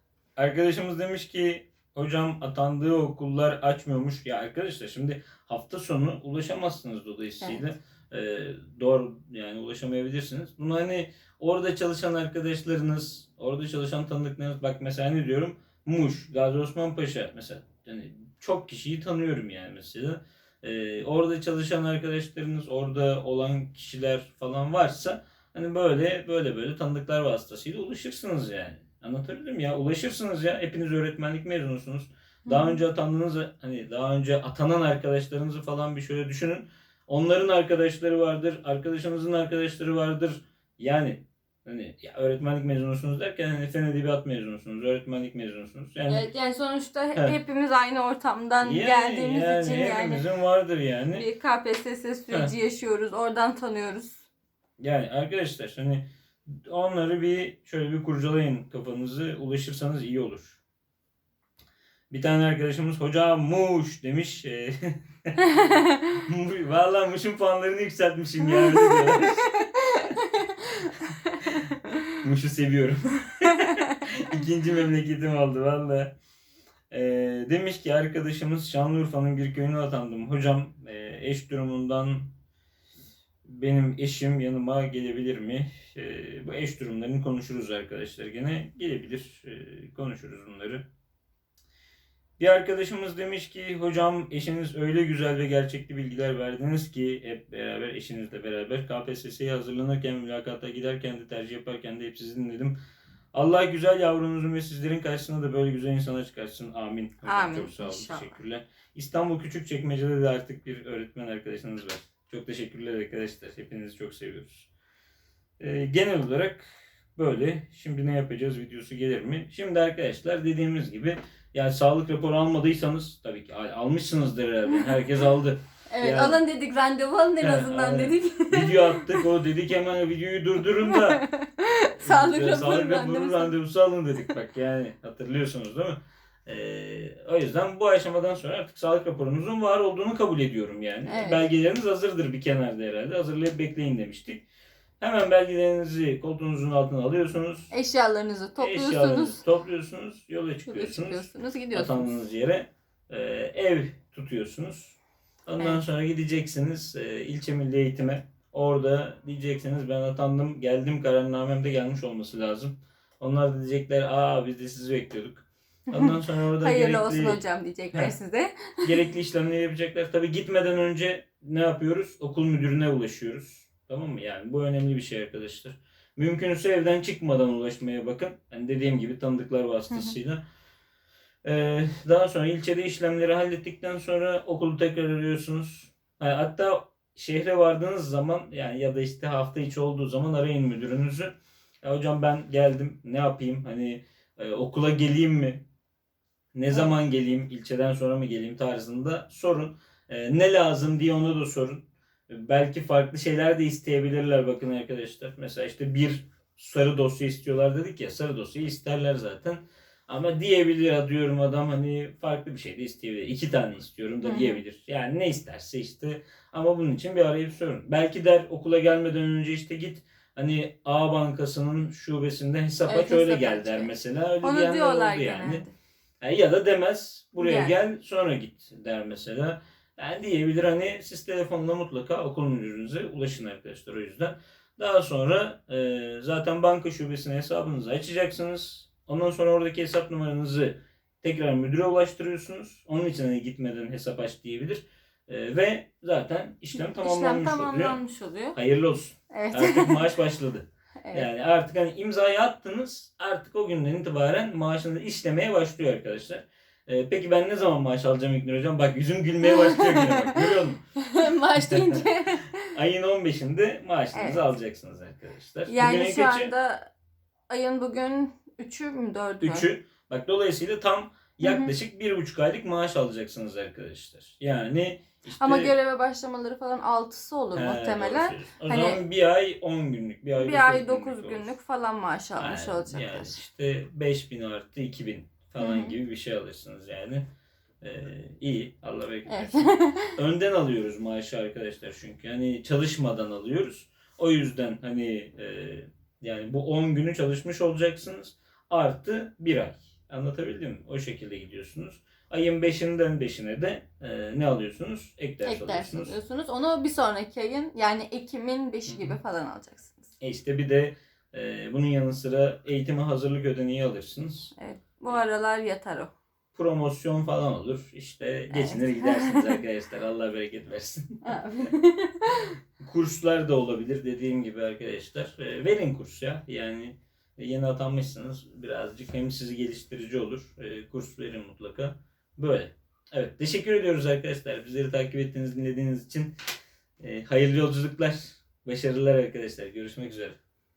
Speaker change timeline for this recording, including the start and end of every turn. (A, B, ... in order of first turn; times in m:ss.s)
0:00.4-0:46.2 A
0:32.4-0:32.8 B
0:46.1-0:50.2 B
0:48.6-0:51.2 A
0:51.1-0:54.2 B
0:54.8-1:00.6 A
1:02.1-1:05.4 A
1:05.5-1:06.1 B
1:06.2-1:10.2 A
1:08.5-1:08.9 B
1:11.4-1:16.2 A
1:16.9-1:22.3 A
1:23.4-1:30.8 A
1:32.4-1:42.8 A
1:43.3-1:54.7 A
1:47.2-1:48.3 B
1:55.6-2:06.4 A
2:05.9-2:09.2 B
2:07.4-2:11.2 A
2:10.7-2:13.6 B
2:12.0-2:24.4 A
2:21.1-2:21.4 B
2:25.0-2:27.7 A
2:27.7-2:29.4 B
2:28.6-2:47.4 A
2:30.6-2:32.1 B
2:45.9-2:49.0 B
2:48.8-3:00.4 A
2:59.9-3:00.2 B
3:01.4-3:15.6 A
3:16.5-3:45.6 A
3:34.2-3:34.6 B
3:42.9-3:45.7 B
3:46.2-4:08.0 A
3:47.4-3:47.7 B
4:06.7-4:08.6 B
4:08.5-4:20.8 A
4:09.3-4:10.1 B
4:19.4-4:20.4 B
4:21.0-4:22.7 B
4:21.7-4:22.0 A
4:22.7-4:26.5 A
4:24.1-4:24.4 B
4:25.7-4:26.9 B
4:27.5-4:29.6 B
4:29.4-4:35.7 A
4:31.4-4:31.7 B
4:35.4-4:39.0 B
4:37.5-4:41.5 A
4:40.4-4:43.4 B
4:42.4-4:47.3 A
4:45.6-4:46.0 B
4:47.8-5:06.2 A
4:49.3-4:50.2 B
5:05.4-5:10.1 B
5:08.9-5:09.1 A
5:10.2-5:14.5 A
5:14.6-5:16.1 B
5:16.5-5:21.2 A
5:18.5-5:19.6 B
5:21.2-5:22.5 B
5:22.8-5:36.3 A
5:37.0-5:40.4 A